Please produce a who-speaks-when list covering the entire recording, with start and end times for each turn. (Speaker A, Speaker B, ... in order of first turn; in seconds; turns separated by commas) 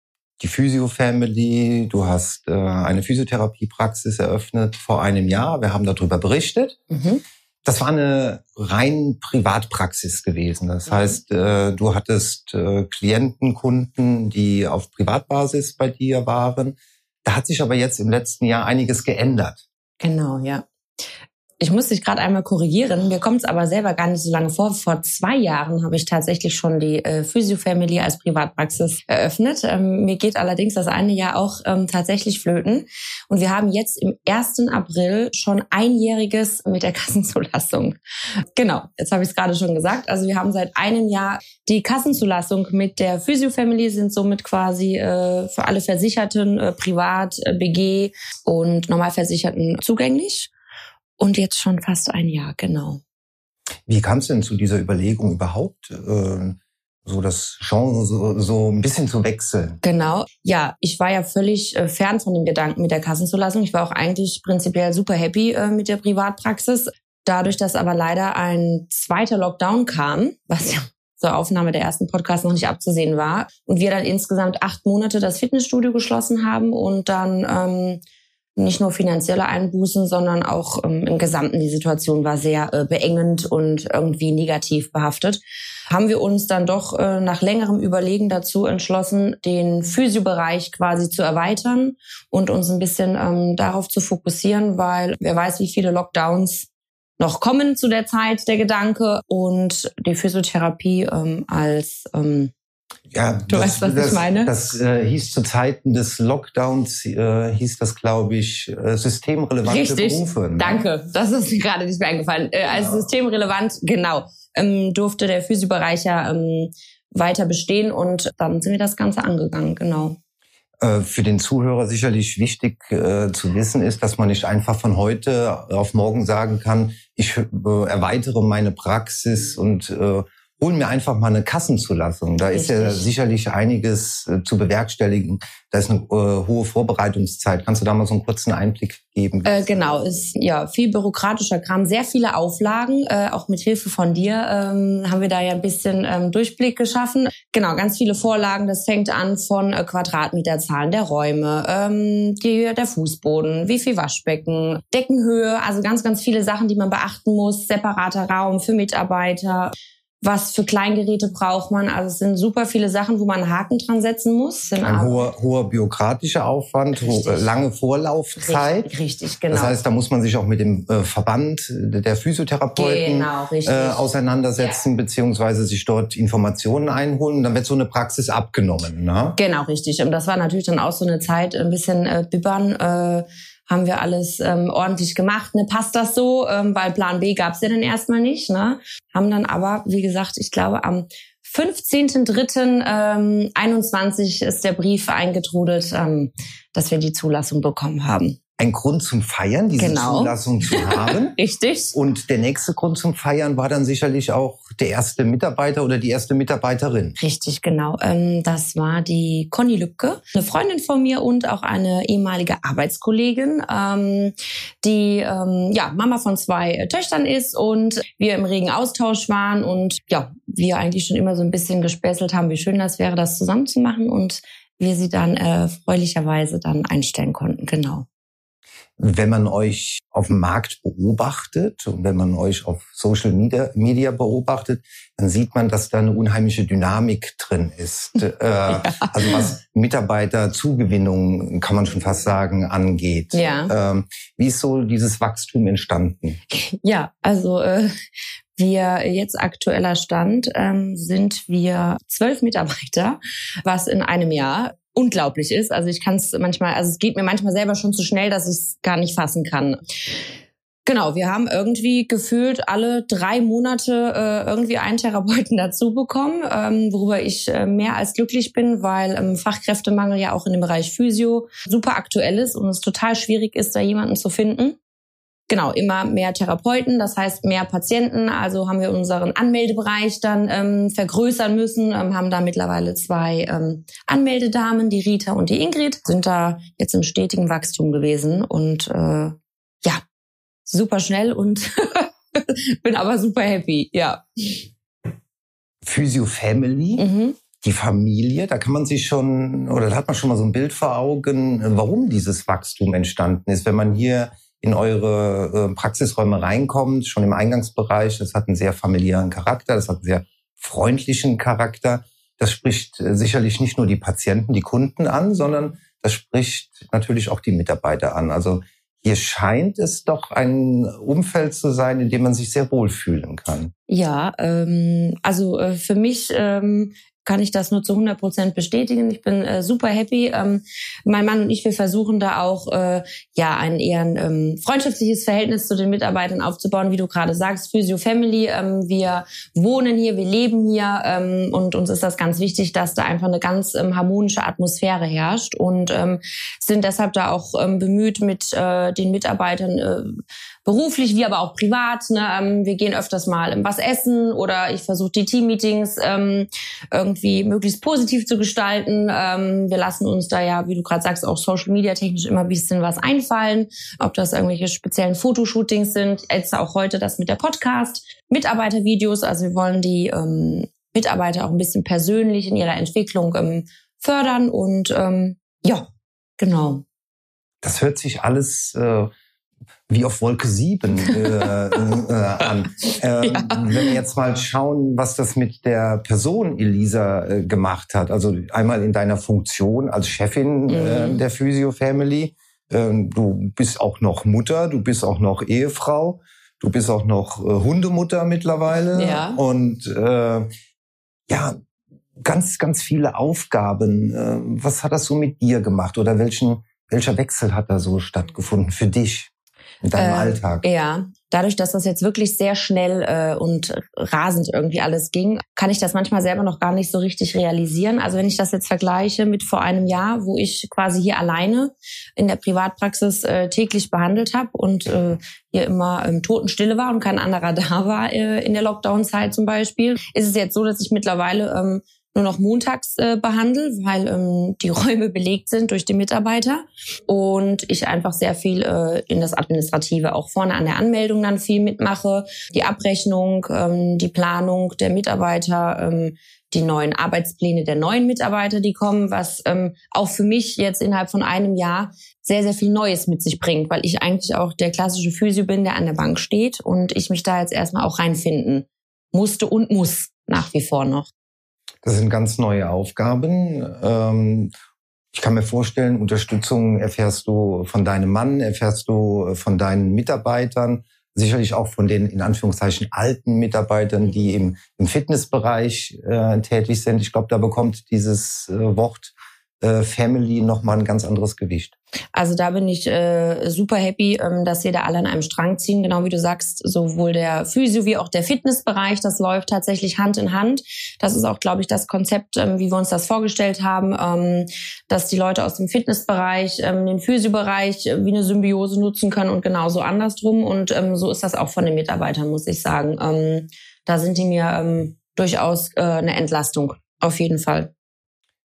Speaker A: 0.4-6.8, Speaker B: 6.9-7.2, Speaker A: 7.7-19.6, Speaker B: 10.9-11.2, Speaker B: 20.0-20.7, Speaker B: 21.6-38.0, Speaker B: 38.5-50.5, Speaker B: 51.2-53.0, Speaker A: 53.9-59.8, Speaker B: 59.8-78.0, Speaker B: 78.6-96.7, Speaker B: 97.2-102.5, Speaker A: 103.1-110.8, Speaker B: 103.5-104.5, Speaker B: 109.6-120.2, Speaker A: 120.8-140.0, Speaker B: 132.4-133.1, Speaker B: 139.5-165.2, Speaker A: 164.8-168.9, Speaker B: 166.9-167.5, Speaker B: 168.4-169.8, Speaker A: 169.5-179.4, Speaker B: 172.8-174.8, Speaker B: 179.4-198.4, Speaker A: 198.6-201.4, Speaker B: 199.8-201.9, Speaker A: 201.9-207.2, Speaker B: 207.2-228.1, Speaker A: 229.0-246.4, Speaker B: 238.7-239.5, Speaker B: 243.3-243.7, Speaker B: 246.5-247.9, Speaker B: 248.6-260.2, Speaker B: 260.9-274.8, Speaker B: 275.5-290.0, Speaker B: 290.7-294.7, Speaker A: 295.8-297.1, Speaker B: 297.0-297.4, Speaker A: 297.6-323.7, Speaker B: 323.9-375.9, Speaker B: 376.4-376.8, Speaker A: 377.6-379.1, Speaker A: 379.9-400.5, Speaker B: 381.0-381.8, Speaker B: 383.2-384.0, Speaker B: 390.7-391.2, Speaker B: 398.9-399.4, Speaker A: 401.3-401.6, Speaker A: 402.2-409.3, Speaker A: 409.8-410.6, Speaker B: 410.0-461.1, Speaker A: 461.8-464.5, Speaker A: 465.1-481.7, Speaker B: 482.1-507.7